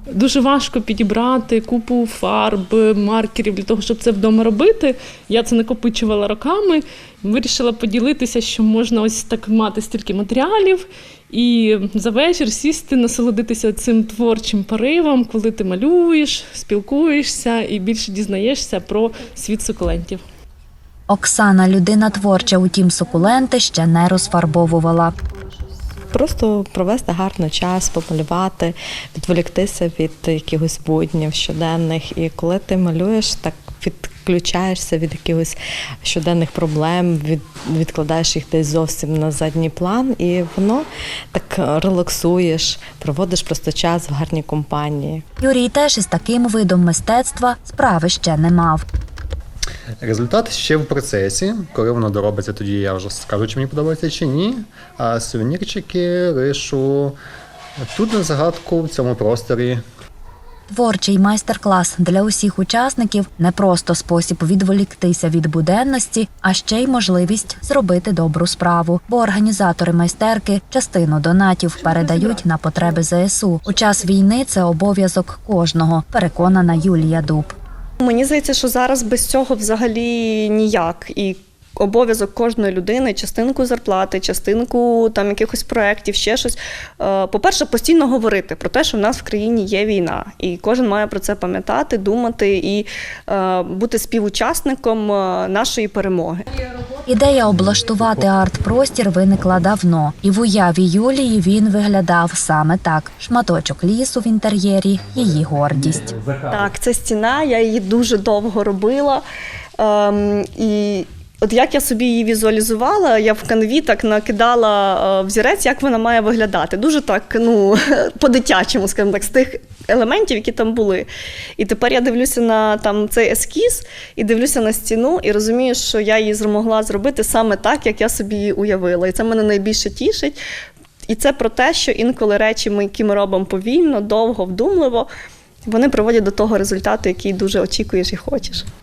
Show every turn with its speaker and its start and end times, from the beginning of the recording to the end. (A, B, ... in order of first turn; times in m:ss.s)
0:00.1-0:20.2 A
0:21.1-0:25.1 B
0:26.1-0:45.2 C
0:45.4-0:48.8 B
0:50.0-0:57.2 D
0:57.9-0:59.8 D
1:00.7-1:17.5 B
1:18.0-1:36.4 E
1:37.1-1:46.1 B
1:46.2-1:46.6 D
1:46.5-1:49.2 E
1:49.8-2:01.1 E
2:01.6-2:10.4 E
2:11.1-2:15.1 E
2:15.6-2:18.6 E